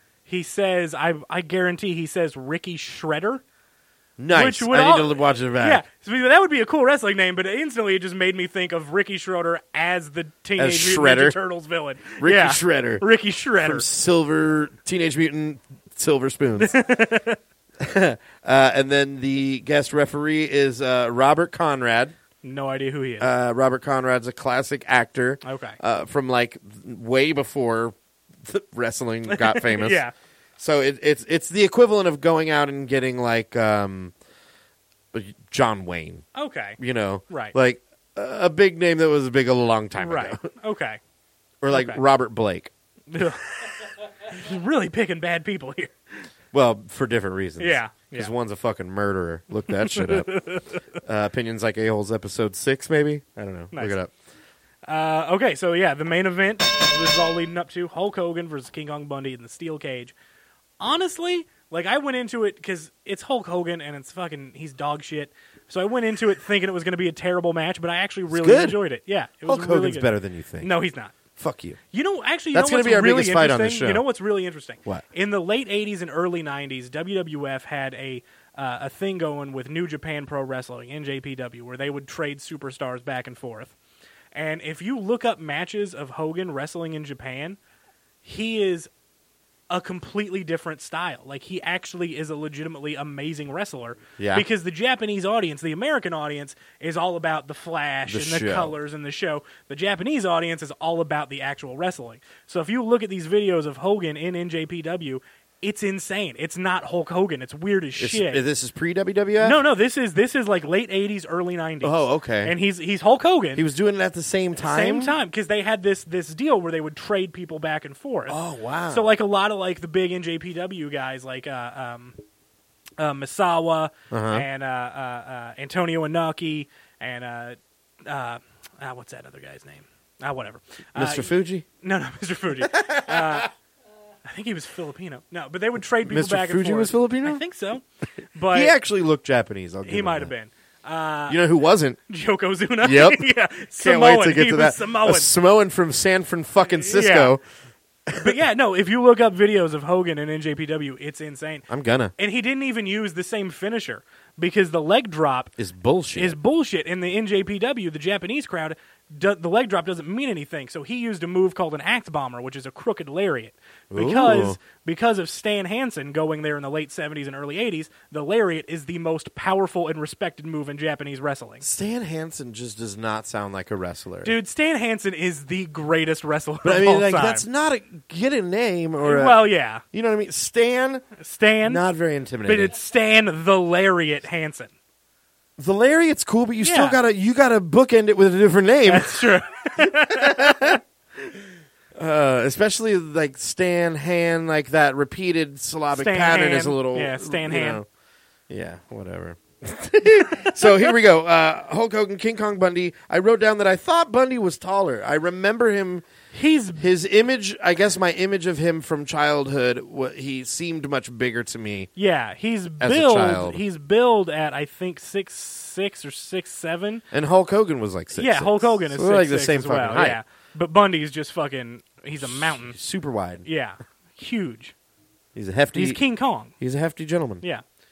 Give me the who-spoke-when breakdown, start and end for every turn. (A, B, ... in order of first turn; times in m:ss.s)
0:00.3-0:03.4 A
0:04.2-0:05.8 B
0:04.3-0:13.8 A
0:10.6-0:11.4 B
0:12.2-0:13.1 B
0:13.6-0:16.8 B
0:16.6-0:17.4 A
0:17.8-0:22.2 B
0:22.4-0:23.3 A
0:23.2-0:30.0 B
0:25.4-0:25.8 A
0:29.3-0:30.1 A
0:30.6-0:34.1 B
0:35.1-0:36.3 B
0:36.4-0:36.8 A
0:36.8-0:40.4 B
0:37.3-0:37.6 A
0:40.0-0:41.0 A
0:41.6-0:42.7 B
0:41.7-0:42.0 A
0:43.1-0:46.2 A
0:46.5-0:50.3 B
0:47.6-0:48.3 A
0:49.8-0:50.8 A
0:51.0-0:54.1 B
0:54.9-1:00.1 A
1:00.8-1:11.2 A
1:08.3-1:08.8 B
1:09.4-1:10.7 B
1:11.4-1:11.8 B
1:11.9-1:23.7 A
1:12.5-1:14.0 B
1:24.3-1:27.6 A
1:28.2-1:28.9 A
1:29.7-1:48.4 A
1:34.2-1:34.4 B
1:38.1-1:38.8 B
1:48.0-1:49.6 B
1:49.4-1:53.6 A
1:51.8-1:52.5 B
1:53.6-1:55.2 B
1:54.6-1:58.4 A
1:58.3-1:59.1 B
1:58.9-2:02.2 A
2:03.0-2:13.5 A
2:04.1-2:04.5 B
2:11.0-2:11.6 B
2:12.6-2:13.5 B
2:14.2-2:17.8 A
2:16.0-2:17.4 B
2:18.4-2:18.8 A
2:18.5-2:20.3 B
2:19.8-2:21.4 A
2:21.3-2:22.0 B
2:22.1-2:25.3 A
2:22.8-2:27.4 B
2:26.8-2:27.4 A
2:28.1-2:28.4 B
2:28.2-2:31.6 A
2:31.7-2:32.1 B
2:32.2-2:35.5 A
2:35.6-2:36.4 B
2:36.2-2:51.6 A
2:43.9-2:44.6 B
2:51.6-2:54.4 B
2:54.2-2:57.4 A
2:56.6-3:01.1 B
2:59.0-2:59.8 A
3:01.2-3:01.8 A
3:01.6-3:02.7 B
3:02.5-3:04.7 A
3:05.6-3:10.8 B
3:06.6-3:07.0 A
3:08.9-3:10.8 A
3:12.0-3:17.9 B
3:15.9-3:17.8 A
3:18.5-3:26.1 B
3:26.3-3:26.9 A
3:26.8-3:31.9 B
3:32.0-3:37.0 A
3:32.8-3:33.6 B
3:37.1-3:40.2 B
3:38.2-3:42.8 A
3:42.2-3:43.4 B
3:43.4-3:44.7 A
3:45.4-3:46.0 B
3:45.7-3:46.5 A
3:46.6-3:47.4 B